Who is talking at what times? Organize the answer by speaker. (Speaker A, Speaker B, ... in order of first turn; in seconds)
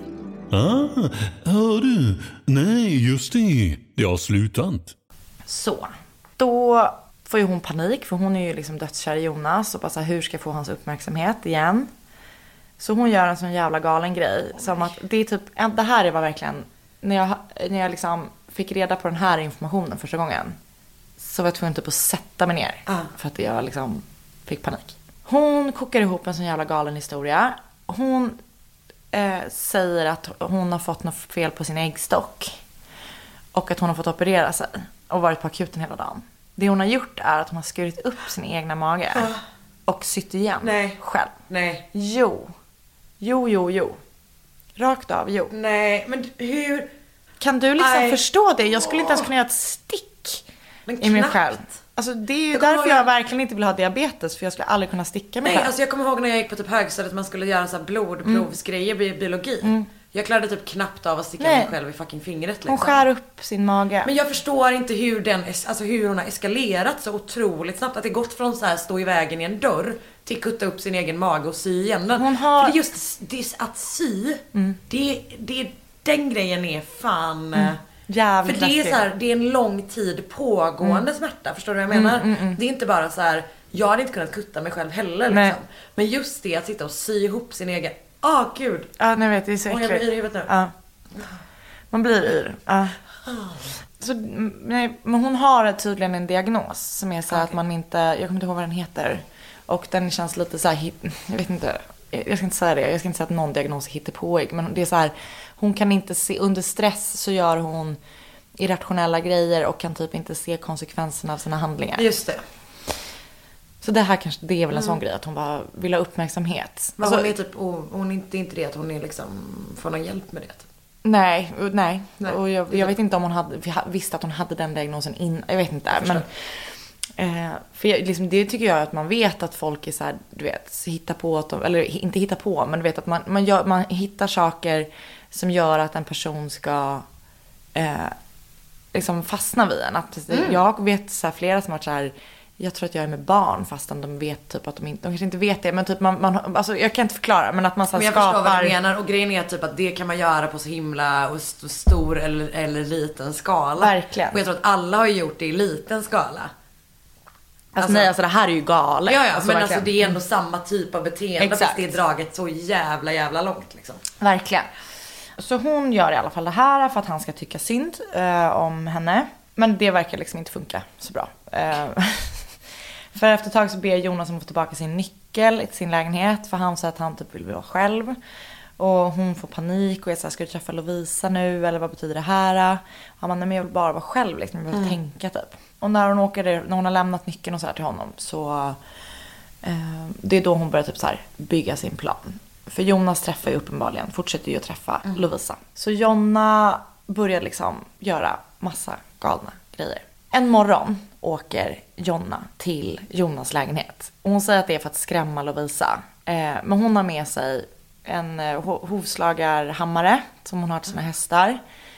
Speaker A: 0.5-4.9
Speaker B: 5.5-11.9, 12.8-20.6, 21.2-28.4, 29.1-32.5, 33.5-39.3, 39.9-41.4, 41.9-42.5, 43.2-44.0, 44.8-45.5, 47.4-50.4, 51.0-55.7, 59.6-59.9, 61.4-61.7, 62.6-64.1, 72.2-72.8, 77.5-79.0, 81.9-82.6, 85.3-85.6, 89.0-90.7, 91.9-93.0, 94.0-108.0, 108.6-112.0, 113.8-117.3, 121.0-137.0, 137.7-138.1, 138.9-148.8, 153.8-154.4, 157.7-160.2, 161.4-161.9, 164.2-164.7, 165.4-172.5, 173.1-178.2, 178.8-188.8, 189.6-211.6
Speaker C: 39.1-39.4, 40.6-41.9, 45.5-46.9, 47.8-48.2, 48.9-49.2, 50.9-51.6, 52.5-53.1, 55.4-63.0, 64.0-77.8, 78.4-88.9, 89.7-90.5, 93.2-93.6, 112.0-112.4, 117.0-120.6, 122.2-122.9, 125.9-126.2, 140.3-140.6, 147.9-156.5, 157.8-158.1, 159.1-164.0